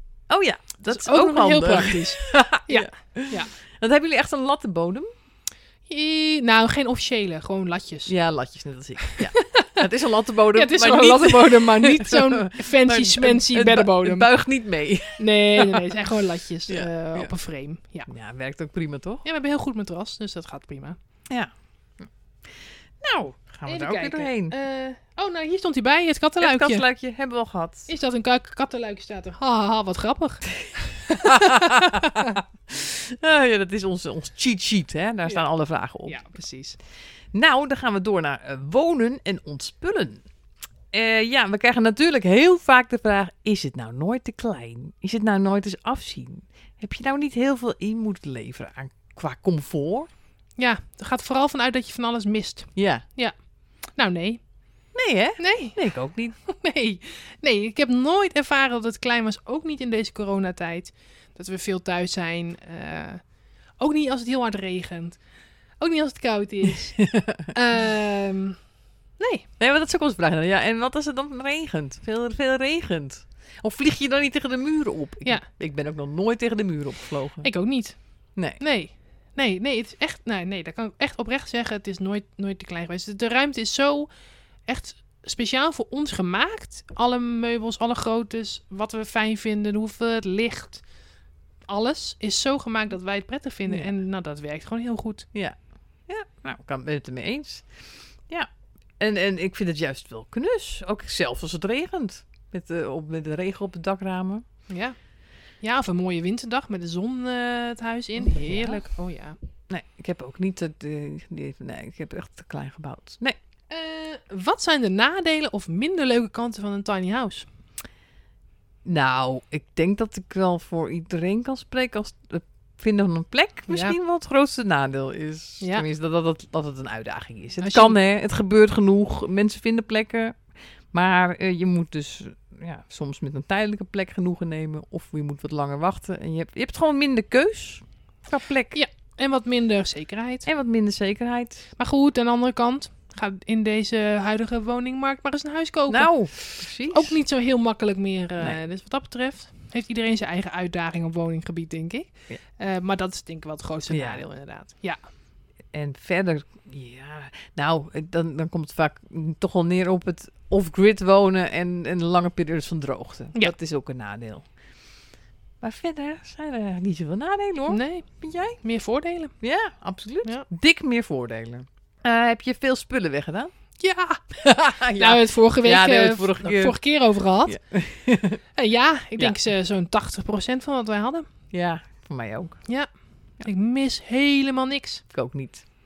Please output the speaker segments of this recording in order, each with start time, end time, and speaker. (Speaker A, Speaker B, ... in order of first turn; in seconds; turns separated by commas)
Speaker A: 0.3-5.1, Speaker B: 0.9-3.5, Speaker B: 5.9-8.1, Speaker A: 8.1-15.8, Speaker B: 9.1-9.8, Speaker B: 10.5-14.3, Speaker B: 15.2-18.1, Speaker A: 16.7-17.3, Speaker A: 18.1-19.2, Speaker B: 19.2-21.0, Speaker A: 21.3-22.1, Speaker A: 23.0-24.5, Speaker B: 23.7-26.8, Speaker A: 26.4-27.9, Speaker B: 27.9-32.3, Speaker A: 31.1-36.2, Speaker B: 36.1-36.8, Speaker A: 37.3-40.2, Speaker A: 40.9-50.1, Speaker B: 50.6-53.3, Speaker A: 52.8-53.0, Speaker B: 53.9-54.4, Speaker A: 54.9-56.4, Speaker B: 55.4-55.8, Speaker B: 56.5-63.2, Speaker B: 63.8-65.2, Speaker B: 65.8-68.6, Speaker A: 67.0-67.4, Speaker B: 69.2-69.5, Speaker A: 69.6-77.5, Speaker B: 77.4-84.1, Speaker B: 84.7-90.8, Speaker B: 91.7-95.3, Speaker A: 95.3-97.7, Speaker A: 99.0-104.4, Speaker B: 104.7-105.0, Speaker B: 105.6-109.4, Speaker A: 108.2-108.8, Speaker A: 109.7-113.4, Speaker B: 113.7-117.5, Speaker A: 118.8-138.8, Speaker B: 123.7-124.0, Speaker B: 125.6-125.8, Speaker B: 127.6-128.0, Speaker B: 138.7-140.4, Speaker A: 140.4-141.6, Speaker B: 141.8-155.0, Speaker A: 145.9-147.2, Speaker A: 153.9-154.2, Speaker A: 155.7-164.4, Speaker A: 165.6-168.6, Speaker B: 167.7-168.1, Speaker B: 168.6-169.3, Speaker A: 169.4-173.5, Speaker B: 173.8-174.2, Speaker A: 174.3-176.8, Speaker B: 174.9-177.6, Speaker A: 177.4-178.4, Speaker B: 178.6-181.2, Speaker A: 181.5-182.6, Speaker B: 183.4-185.0, Speaker A: 185.1-185.7